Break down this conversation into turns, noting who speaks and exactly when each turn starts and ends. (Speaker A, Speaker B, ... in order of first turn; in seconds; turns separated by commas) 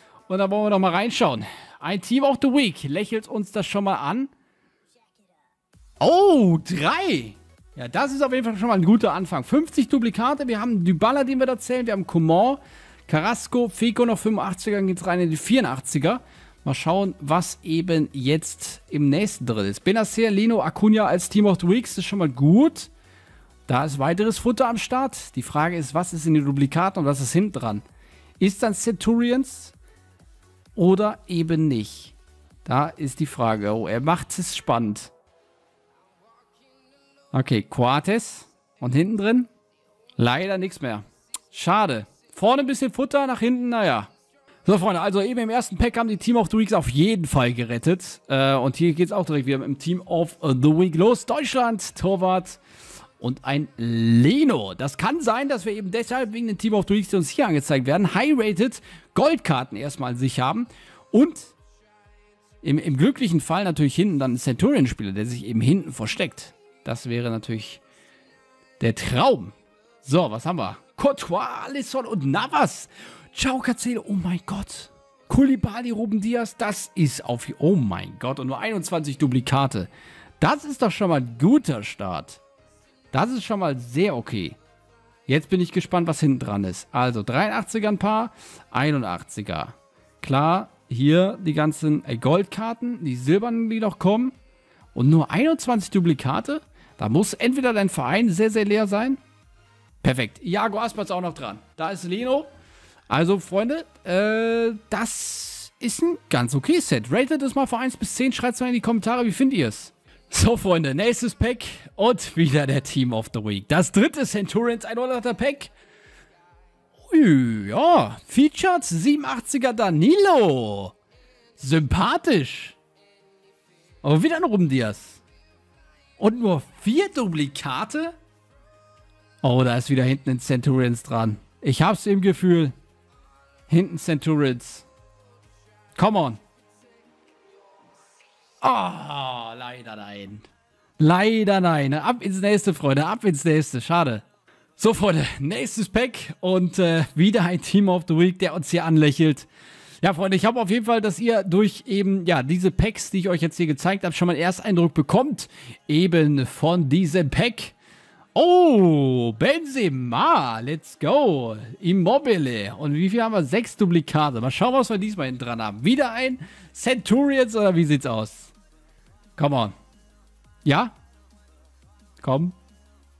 Speaker A: 0.3-4.3, Speaker A: 6.0-22.9, Speaker A: 23.7-27.8, Speaker A: 28.4-29.7, Speaker A: 30.8-35.1, Speaker A: 37.3-39.5, Speaker A: 40.2-44.1, Speaker A: 44.6-52.6, Speaker A: 53.2-61.5, Speaker A: 62.6-67.8, Speaker A: 68.8-82.4, Speaker A: 83.1-84.6, Speaker A: 85.3-94.3, Speaker A: 94.9-99.2, Speaker A: 100.0-102.5, Speaker A: 103.1-115.7, Speaker A: 117.1-120.9, Speaker A: 121.6-122.8, Speaker A: 124.0-125.2, Speaker A: 126.2-128.1, Speaker A: 129.4-132.7, Speaker A: 133.7-134.8, Speaker A: 135.9-136.4, Speaker A: 138.6-140.5, Speaker A: 141.0-144.2, Speaker A: 144.8-149.5, Speaker A: 150.0-157.7, Speaker A: 158.3-168.5, Speaker A: 169.4-169.7, Speaker A: 170.6-170.9, Speaker A: 172.2-172.5